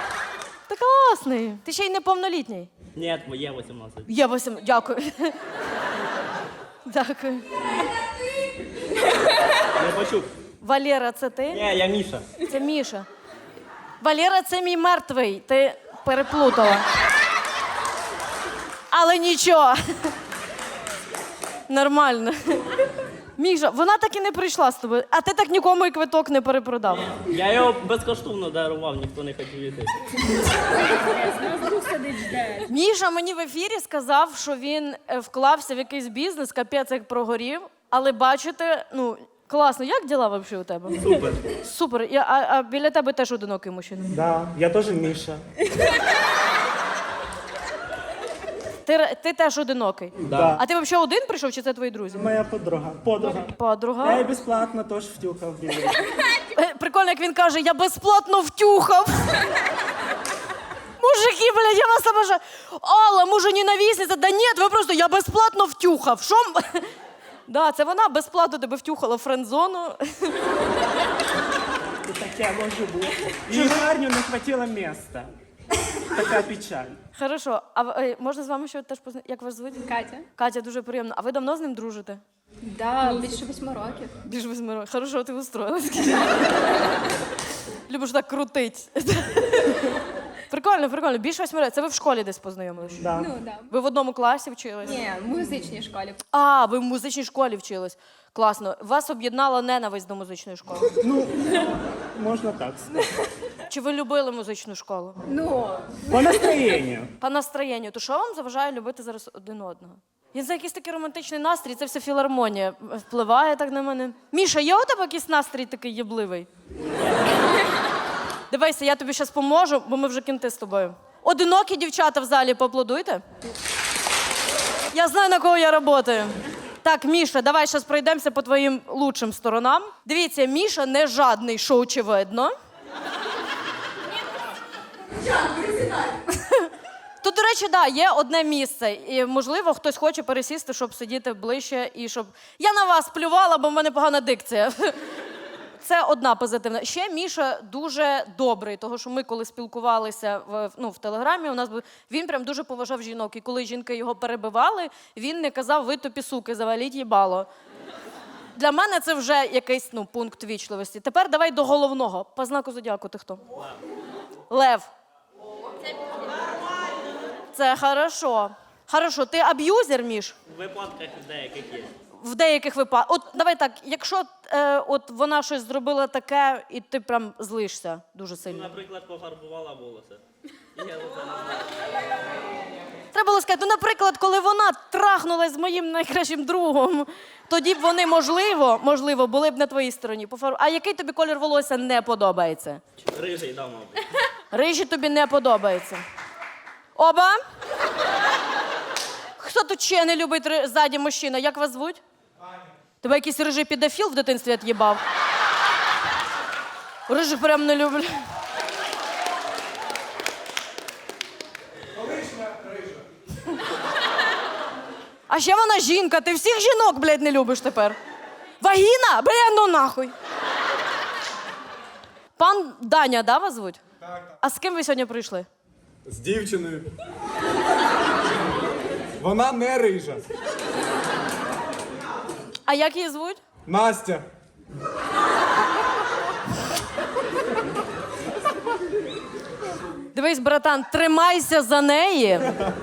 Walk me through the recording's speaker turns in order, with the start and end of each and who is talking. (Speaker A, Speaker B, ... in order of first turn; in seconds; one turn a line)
Speaker A: 0.7-2.7
Speaker B: 3.0-4.1
Speaker A: 4.1-5.4
Speaker A: 6.9-7.5
Speaker B: 9.7-10.3
Speaker A: 10.6-11.6
Speaker B: 11.5-12.3
Speaker A: 12.4-13.1
Speaker A: 14.0-16.9
Speaker A: 18.9-20.1
Speaker A: 21.7-22.6
Speaker A: 23.4-27.1
Speaker B: 26.9-30.0
Speaker C: 31.4-32.1
Speaker A: 32.7-41.0
Speaker B: 41.0-41.4
Speaker D: 41.1-41.4
Speaker A: 41.6-44.1
Speaker D: 44.1-45.4
Speaker A: 48.9-52.2
Speaker D: 50.3-50.6
Speaker D: 52.1-53.5
Speaker A: 53.5-54.3
Speaker D: 54.0-56.0
Speaker A: 56.5-59.4
Speaker A: 61.0-66.9
Speaker A: 67.5-70.3
Speaker D: 72.0-75.3
Speaker A: 73.5-73.8
Speaker D: 76.1-77.0
Speaker A: 77.2-79.8
Speaker C: 79.8-80.3
Speaker A: 80.4-82.2
Speaker C: 82.6-84.2
Speaker A: 84.2-86.4
Speaker A: 87.9-89.9
Speaker A: 90.5-93.0
Speaker D: 93.0-93.3
Speaker C: 93.1-93.7
Speaker A: 93.7-95.0
Speaker C: 94.8-96.2
Speaker A: 96.3-100.9
Speaker D: 101.0-103.0
Speaker A: 103.7-105.2
Speaker C: 105.3-106.4
Speaker D: 106.1-107.1
Speaker A: 107.2-116.5
Speaker A: 118.5-123.2
Speaker A: 124.9-132.5
Speaker C: 135.2-136.2
Speaker A: 136.3-136.7
Speaker A: 137.2-145.0
Speaker A: 145.8-157.5
Speaker A: 158.6-163.4
Speaker A: 164.5-164.9
Speaker A: 167.5-170.4
Speaker B: 170.5-171.9
Speaker A: 172.2-178.7
Speaker B: 178.4-180.2
Speaker B: 180.8-181.7
Speaker A: 183.1-192.8
Speaker B: 193.1-194.1
Speaker A: 194.5-196.0
Speaker A: 197.0-197.4
Speaker A: 199.4-202.0
Speaker A: 203.0-205.0
Speaker A: 207.1-208.1
Speaker E: 211.9-213.1
Speaker A: 215.3-218.0
Speaker A: 218.6-220.1
Speaker A: 222.4-223.8
Speaker E: 224.0-224.3
Speaker A: 224.4-225.5
Speaker E: 226.1-226.9
Speaker E: 229.2-230.2
Speaker A: 232.7-233.4
Speaker E: 233.7-234.3
Speaker A: 240.1-242.5